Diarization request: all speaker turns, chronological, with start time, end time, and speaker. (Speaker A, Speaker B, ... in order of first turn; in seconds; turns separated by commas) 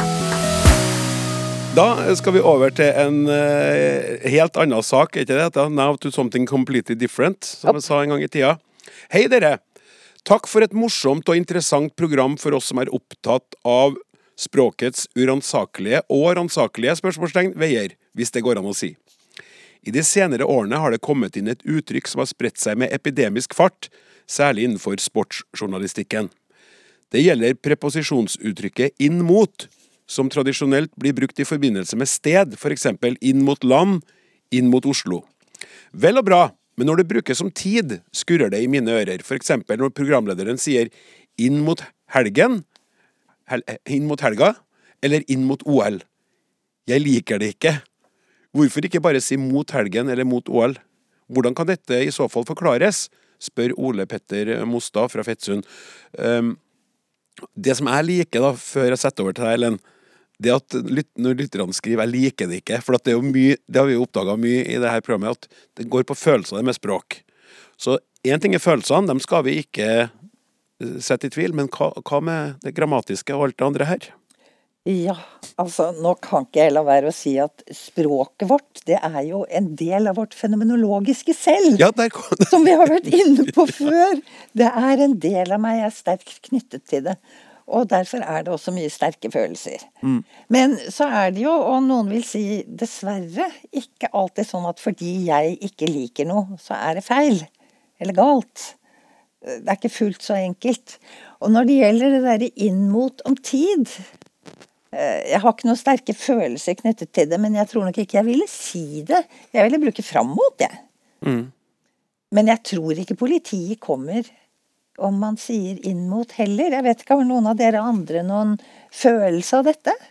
Speaker A: 1.7-9.6, Speaker A: 10.2-19.0, Speaker A: 19.8-26.3, Speaker A: 27.1-35.2, Speaker A: 35.9-42.6, Speaker A: 43.5-46.0, Speaker A: 46.9-47.8, Speaker A: 48.5-56.6, Speaker A: 57.5-59.8, Speaker A: 60.4-67.2, Speaker A: 67.8-70.1, Speaker A: 70.8-74.1, Speaker B: 74.8-81.9, Speaker A: 81.8-82.9, Speaker B: 82.5-89.9, Speaker B: 90.5-98.7, Speaker B: 99.4-104.0, Speaker B: 104.9-110.8, Speaker A: 111.2-111.5, Speaker B: 112.3-114.3, Speaker B: 115.0-120.0